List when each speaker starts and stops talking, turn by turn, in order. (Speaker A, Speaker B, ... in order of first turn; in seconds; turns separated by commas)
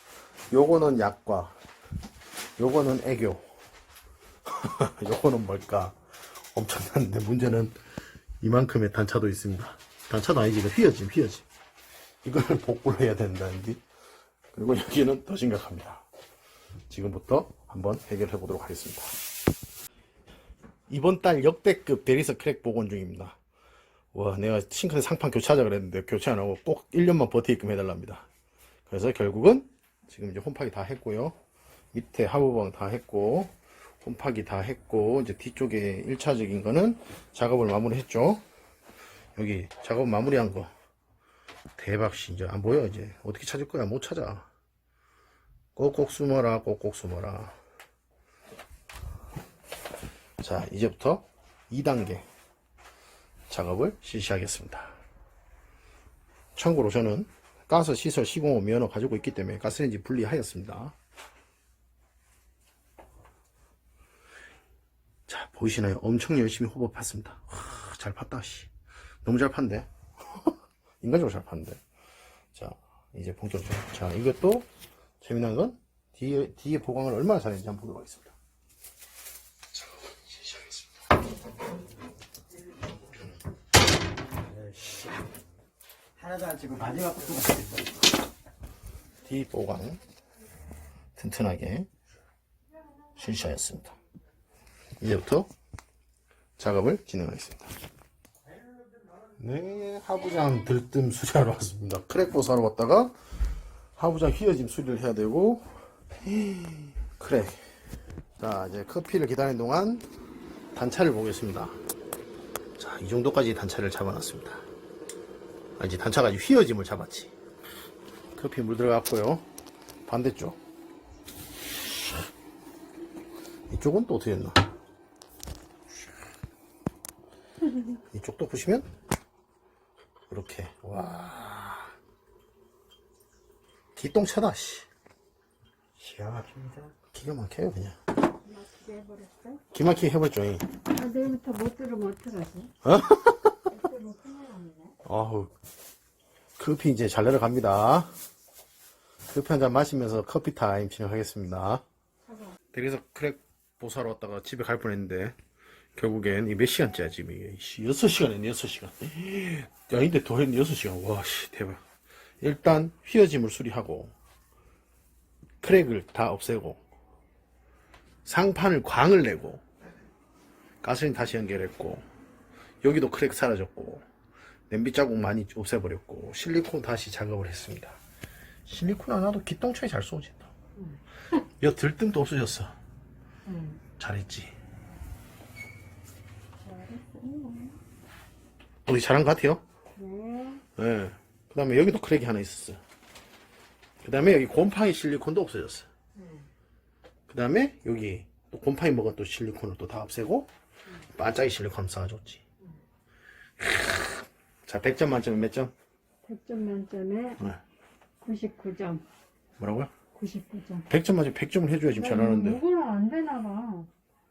Speaker A: 0.5-1.6, Speaker A: 2.6-3.4, Speaker A: 4.5-6.0, Speaker A: 6.5-7.8, Speaker A: 8.4-11.4, Speaker A: 12.2-13.8, Speaker A: 14.5-16.0, Speaker A: 16.9-19.1, Speaker A: 20.9-23.4, Speaker A: 24.1-28.2, Speaker A: 28.9-31.3, Speaker A: 31.9-38.4, Speaker A: 39.4-40.7, Speaker A: 41.8-44.5, Speaker A: 45.8-47.6, Speaker A: 50.4-52.2, Speaker A: 53.5-55.0, Speaker A: 56.5-60.9, Speaker A: 65.3-68.7, Speaker A: 69.2-71.8, Speaker A: 72.5-74.7, Speaker A: 75.2-78.3, Speaker B: 84.7-85.1, Speaker B: 86.2-87.9, Speaker A: 89.2-90.0, Speaker A: 91.2-91.9, Speaker A: 93.2-94.0, Speaker A: 95.0-95.5, Speaker A: 96.6-97.7, Speaker A: 99.4-103.1, Speaker A: 104.0-105.7, Speaker A: 106.2-107.6, Speaker A: 108.4-110.1, Speaker A: 110.7-111.8, Speaker A: 112.8-114.7, Speaker A: 115.8-117.3, Speaker A: 118.3-119.4, Speaker A: 120.1-120.6, Speaker A: 123.7-124.6, Speaker A: 128.0-128.9, Speaker A: 130.3-131.9, Speaker A: 133.9-134.9, Speaker B: 136.0-136.9, Speaker A: 137.1-138.0, Speaker C: 138.4-139.6, Speaker A: 139.7-140.7, Speaker C: 140.9-142.7, Speaker A: 142.8-143.6, Speaker C: 143.7-144.9, Speaker A: 145.0-145.5, Speaker A: 146.6-148.1, Speaker A: 149.3-151.8, Speaker C: 152.3-152.5, Speaker A: 152.7-155.3, Speaker A: 155.9-161.8, Speaker A: 162.4-164.1, Speaker A: 165.6-166.8, Speaker A: 168.2-169.6, Speaker A: 170.8-172.0, Speaker A: 172.8-174.0, Speaker A: 174.7-178.0, Speaker A: 178.7-180.5, Speaker A: 181.6-182.8, Speaker C: 183.4-183.8, Speaker A: 184.0-184.5, Speaker C: 186.6-187.8, Speaker A: 188.8-189.6, Speaker C: 189.9-190.6, Speaker A: 190.8-192.8, Speaker A: 194.0-195.9, Speaker C: 196.2-196.4, Speaker A: 197.3-200.5, Speaker A: 201.1-202.4, Speaker A: 203.6-204.0, Speaker A: 204.7-205.7, Speaker C: 206.2-207.4, Speaker C: 208.2-209.0, Speaker A: 209.6-209.9, Speaker C: 210.1-210.9, Speaker A: 210.9-212.6, Speaker C: 211.9-213.9